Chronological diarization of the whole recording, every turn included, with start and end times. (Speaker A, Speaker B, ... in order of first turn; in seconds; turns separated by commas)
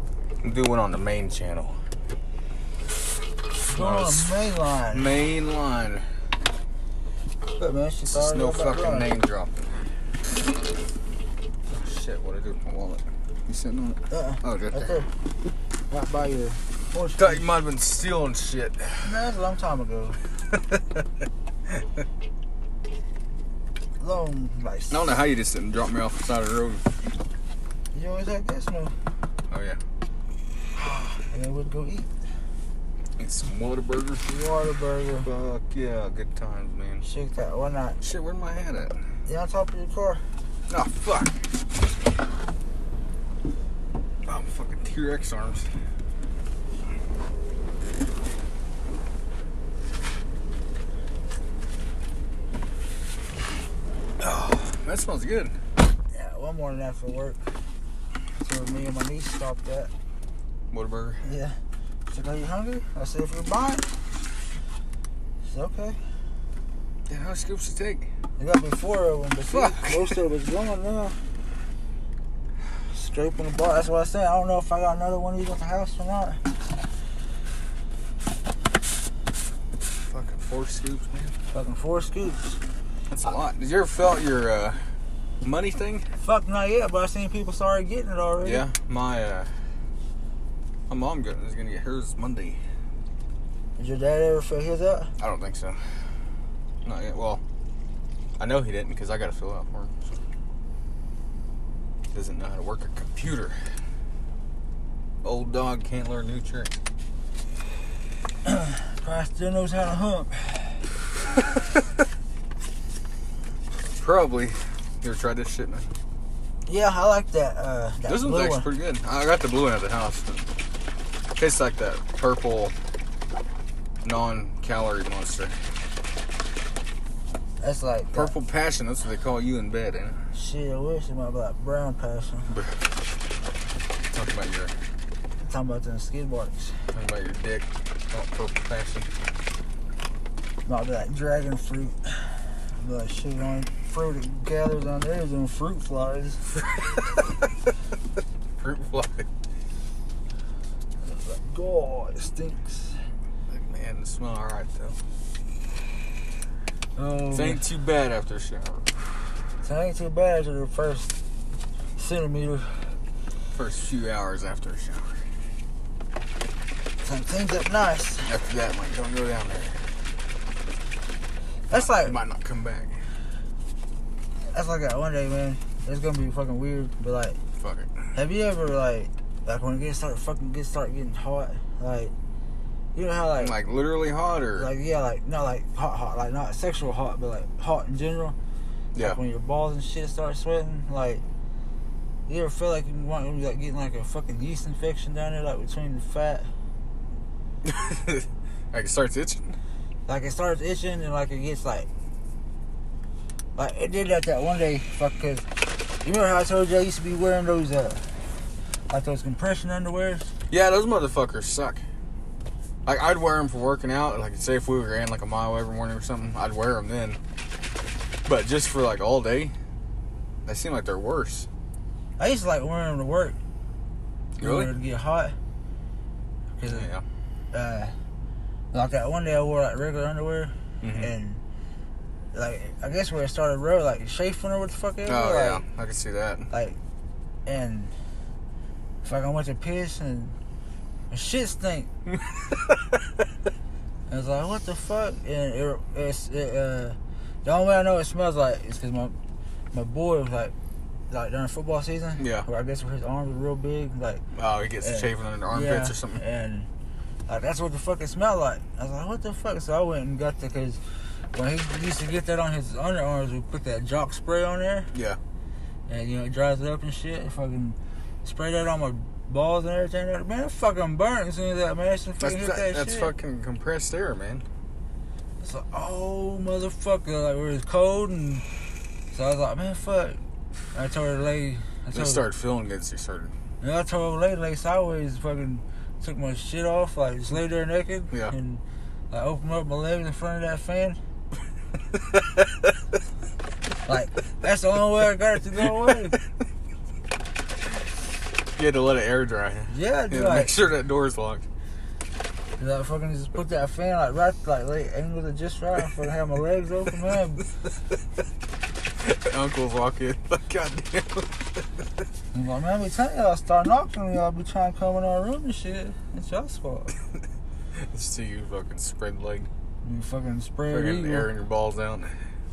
Speaker A: 0.4-1.8, Speaker B: 3.7-5.1, Speaker A: 3.7-4.3, Speaker A: 4.9-6.0, Speaker B: 7.6-9.1, Speaker A: 8.1-9.6, Speaker A: 11.7-14.9, Speaker B: 14.1-15.1, Speaker B: 15.9-17.4, Speaker A: 17.2-19.1, Speaker B: 19.0-20.2, Speaker A: 20.5-21.0, Speaker B: 24.0-25.1, Speaker A: 24.9-26.9, Speaker B: 27.9-28.9, Speaker A: 29.5-29.8, Speaker B: 30.8-32.1, Speaker A: 33.2-34.2, Speaker B: 34.2-35.3, Speaker A: 35.2-37.0, Speaker B: 37.0-38.0, Speaker A: 38.0-39.0, Speaker B: 39.2-40.2, Speaker A: 40.7-41.4, Speaker A: 44.2-45.7, Speaker A: 54.2-55.5, Speaker B: 56.1-57.5, Speaker B: 58.4-59.9, Speaker A: 60.7-61.2, Speaker B: 61.2-61.6, Speaker B: 62.1-63.9, Speaker B: 65.4-66.0, Speaker A: 67.1-68.1, Speaker B: 68.4-71.2, Speaker A: 69.5-70.2, Speaker B: 72.9-76.4, Speaker A: 80.0-81.3, Speaker B: 81.5-82.6, Speaker A: 83.1-84.8, Speaker A: 85.4-86.0, Speaker B: 86.2-88.6, Speaker A: 88.4-89.5, Speaker A: 90.9-92.6, Speaker B: 93.8-95.1, Speaker A: 95.2-95.8, Speaker A: 96.8-97.4, Speaker A: 98.4-100.1, Speaker A: 102.1-103.6, Speaker A: 105.2-106.7, Speaker B: 108.4-110.8, Speaker A: 114.0-115.9, Speaker B: 116.7-118.7, Speaker A: 118.0-120.5, Speaker A: 121.4-122.7, Speaker A: 124.0-125.5, Speaker B: 127.6-128.3, Speaker A: 128.1-130.2, Speaker B: 130.3-132.6, Speaker A: 132.5-132.8, Speaker A: 134.1-134.7, Speaker B: 135.4-136.8, Speaker A: 136.9-139.1, Speaker B: 140.7-146.6, Speaker A: 148.6-149.3, Speaker B: 151.0-153.0, Speaker A: 153.5-155.0, Speaker B: 156.9-157.6, Speaker A: 157.3-158.9, Speaker B: 159.6-161.1, Speaker B: 161.9-162.9, Speaker A: 163.5-165.2, Speaker B: 167.0-168.3, Speaker A: 168.2-169.8, Speaker B: 171.7-172.2, Speaker A: 171.7-173.0, Speaker B: 174.5-177.4, Speaker A: 177.6-178.1, Speaker B: 178.1-182.1, Speaker B: 182.9-183.6, Speaker A: 183.4-184.7, Speaker B: 184.6-188.3, Speaker B: 189.0-191.2, Speaker B: 192.3-196.5, Speaker A: 197.6-199.6, Speaker B: 200.1-201.9, Speaker B: 203.6-205.4, Speaker B: 206.0-208.1, Speaker B: 208.9-210.3, Speaker A: 210.5-211.8, Speaker A: 212.8-217.2, Speaker A: 218.2-219.5, Speaker A: 220.4-221.5, Speaker B: 222.2-223.4, Speaker A: 224.4-224.7, Speaker B: 224.4-225.3, Speaker B: 226.6-226.9, Speaker A: 226.7-227.0, Speaker B: 227.5-227.9, Speaker B: 228.7-231.4, Speaker A: 230.8-231.1, Speaker B: 232.3-235.6, Speaker A: 235.1-236.5, Speaker B: 236.5-236.8, Speaker B: 237.4-237.9, Speaker B: 239.0-240.3, Speaker B: 241.1-241.9, Speaker B: 244.1-249.2, Speaker B: 249.7-250.5, Speaker B: 251.1-254.2, Speaker A: 252.2-252.5, Speaker A: 254.3-256.2, Speaker B: 254.8-256.7, Speaker B: 257.3-260.8, Speaker B: 261.3-264.9, Speaker A: 264.9-265.2, Speaker B: 265.9-273.1, Speaker A: 272.2-274.4, Speaker B: 275.4-278.4, Speaker B: 279.1-280.2, Speaker B: 280.7-282.2, Speaker A: 281.9-283.3, Speaker B: 283.6-291.0, Speaker A: 292.0-292.5, Speaker B: 293.9-296.2, Speaker A: 298.5-301.4, Speaker B: 299.7-300.6, Speaker B: 302.6-307.5, Speaker A: 309.0-311.6, Speaker B: 312.3-316.9, Speaker A: 317.7-319.5, Speaker B: 319.8-321.3, Speaker A: 320.7-322.1